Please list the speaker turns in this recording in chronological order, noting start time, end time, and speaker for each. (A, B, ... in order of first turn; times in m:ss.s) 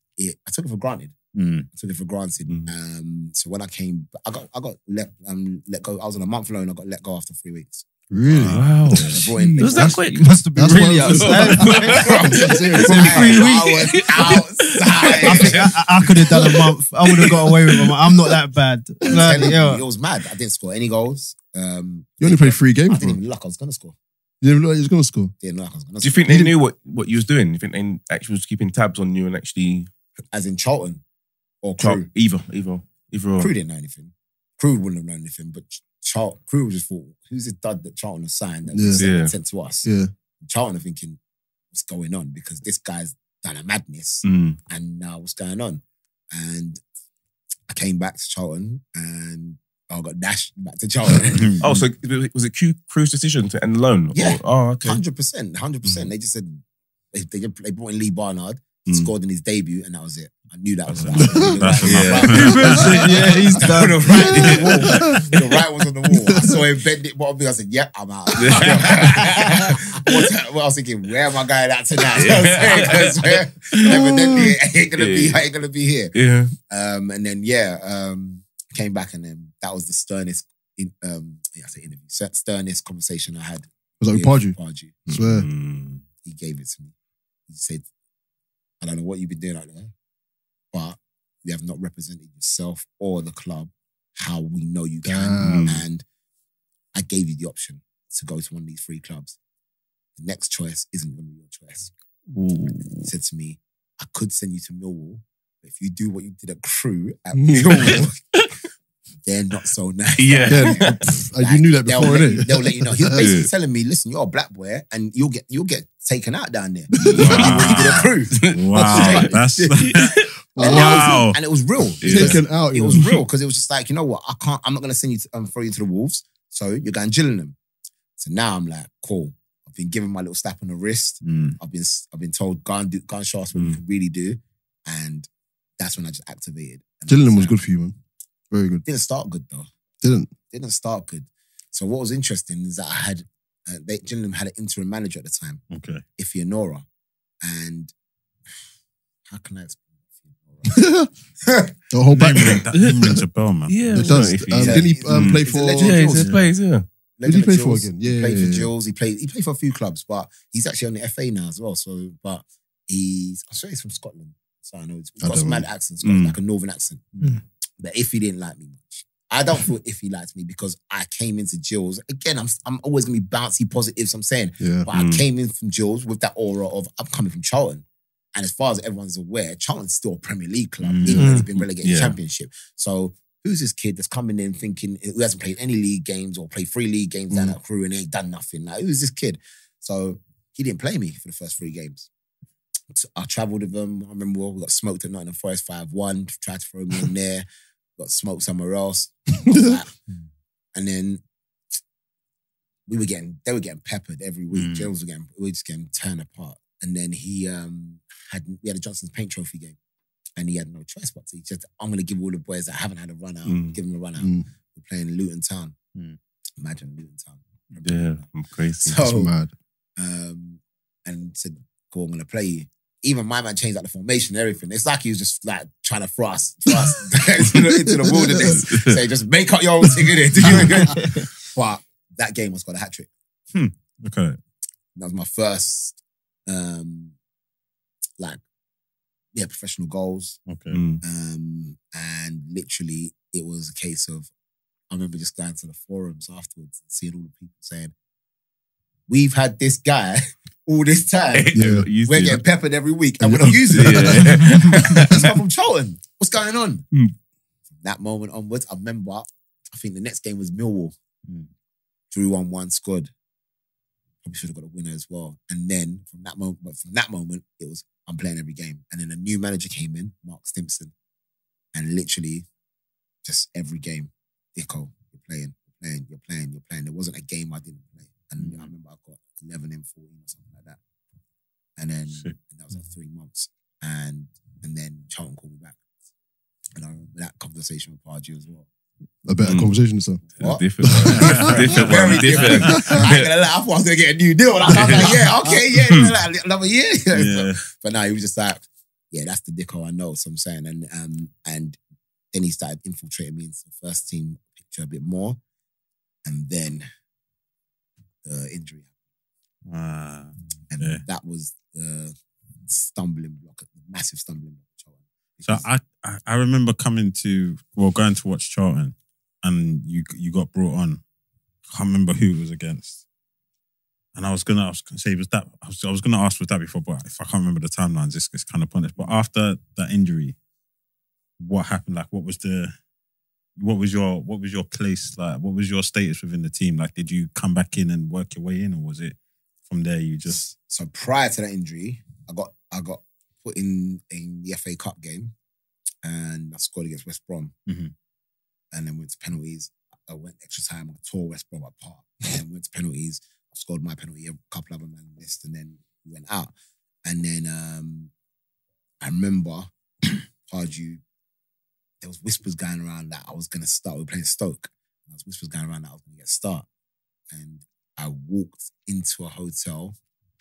0:00.2-0:01.2 A
0:01.3-0:01.7 B
0:01.7-0:07.8 A
0:08.1-0:10.0 C
0:08.3-0:09.3 B
0:08.5-0:18.4 D
0:08.9-0:10.0 A
0:10.1-0:14.4 E
0:10.5-0:13.4 C
0:11.6-0:16.4 A
0:15.0-0:19.8 E
0:19.0-0:24.0 A
0:19.1-0:19.5 C
0:22.2-0:23.2 C
0:24.4-0:25.3 C
0:25.4-0:26.2 A
0:26.0-0:29.9 D
0:26.3-0:26.6 C
0:30.3-0:31.0 A
0:31.6-0:32.1 A
0:31.8-0:33.5 D
0:33.4-0:39.9 A
0:38.7-0:39.0 C
0:39.0-0:39.3 D
0:39.8-0:40.1 C
0:40.4-0:41.2 A
0:41.7-0:45.8 A
0:44.2-0:44.6 D
0:46.3-0:46.8 A
0:47.7-0:51.9 A
0:51.3-0:51.7 B
0:51.6-0:55.0 D
0:54.1-1:03.0 A
1:00.9-1:05.4 D
1:01.0-1:03.1 B
1:02.3-1:04.7 E
1:03.6-1:16.2 A
1:04.4-1:05.4 C
1:06.1-1:06.6 C
1:08.4-1:10.2 D
1:12.1-1:14.4 D
1:13.8-1:14.5 C
1:15.0-1:15.4 D
1:16.1-1:16.5 D
1:16.7-1:24.9 A
1:24.0-1:25.5 C
1:25.1-1:26.0 D
1:26.2-1:26.9 A
1:27.5-1:27.8 A
1:28.8-1:29.9 A
1:30.7-1:36.0 A
1:35.0-1:35.8 C
1:35.4-1:35.8 D
1:37.0-1:39.4 A
1:40.2-1:41.9 A
1:42.3-1:43.1 D
1:43.0-1:48.2 A
1:47.3-1:48.1 C
1:47.8-1:48.5 D
1:49.2-2:00.0 A
1:50.2-1:51.0 D
1:50.5-1:53.3 C
1:53.2-1:53.5 D
1:56.9-2:00.3 D
1:57.0-1:57.6 C
1:57.2-2:01.4 B
2:00.6-2:01.3 C
2:00.6-2:07.6 A
2:02.0-2:02.4 D
2:02.0-2:03.1 C
2:02.9-2:03.2 D
2:08.2-2:17.6 A
2:11.2-2:11.6 B
2:17.1-2:18.0 C
2:18.5-2:18.8 C
2:18.8-2:19.7 A
2:20.0-2:20.3 C
2:20.5-2:25.6 A
2:25.7-2:26.0 B
2:26.2-2:26.8 A
2:27.4-2:27.9 A
2:29.3-2:30.9 A
2:30.7-2:31.1 C
2:31.4-2:31.8 A
2:31.9-2:33.2 C
2:32.1-2:34.2 B
2:32.3-2:32.6 A
2:32.7-2:33.0 D
2:33.7-2:36.9 D
2:33.9-2:36.0 C
2:34.5-2:36.4 A
2:36.2-2:36.5 B
2:37.2-3:12.1 A
2:37.2-2:38.7 C
2:45.2-2:45.7 C
2:46.0-2:46.4 D
2:54.6-2:54.9 C
2:54.9-2:55.2 D
3:00.8-3:01.3 B
3:01.2-3:01.5 E
3:01.2-3:02.2 D
3:12.9-3:17.4 A
3:18.0-3:19.9 A
3:19.5-3:19.8 C
3:20.8-3:21.2 A
3:22.9-3:29.8 A
3:24.5-3:24.9 B
3:30.4-3:35.8 A
3:33.4-3:33.8 D
3:34.2-3:34.5 C
3:36.6-3:38.2 A
3:37.8-3:39.0 D
3:38.8-3:39.3 A
3:39.0-3:39.5 C
3:40.0-3:53.1 A
3:47.5-3:48.6 C
3:48.4-3:49.0 D
3:53.5-3:54.4 B
3:55.0-3:57.2 A
3:59.4-4:00.4 A
4:00.5-4:00.8 B
4:00.7-4:01.0 D
4:01.0-4:04.3 A
4:04.9-4:07.9 A
4:09.1-4:16.9 A
4:11.3-4:12.4 D
4:11.5-4:11.9 C
4:13.2-4:15.2 C
4:13.7-4:15.4 D
4:17.7-4:20.9 A
4:22.1-4:23.1 A
4:24.2-4:30.9 A
4:31.7-4:32.5 A
4:33.2-4:40.8 A
4:38.4-4:38.7 B
4:41.8-4:45.8 A
4:46.8-4:48.7 A
4:49.2-4:50.2 C
4:49.4-4:49.7 D
4:50.4-5:01.8 A
4:50.4-4:53.3 D
4:50.8-4:51.7 C
4:51.1-4:53.0 B
4:54.7-4:55.2 D
4:57.1-4:57.6 B
5:02.3-5:05.4 A
5:06.2-5:06.9 A
5:08.2-5:08.9 A
5:09.7-5:11.0 B
5:10.7-5:12.2 A
5:12.7-5:15.7 A
5:15.5-5:21.0 B
5:21.7-5:23.0 B
5:24.2-5:30.4 B
5:31.4-5:32.7 B
5:33.6-5:39.2 B
5:39.7-5:40.4 B
5:40.3-5:45.3 A
5:46.0-5:47.5 A
5:47.7-5:47.9 B
5:48.7-5:56.5 A
5:57.0-5:58.1 A
5:59.0-6:01.0 A
6:02.0-6:06.7 A
6:07.3-6:10.0 A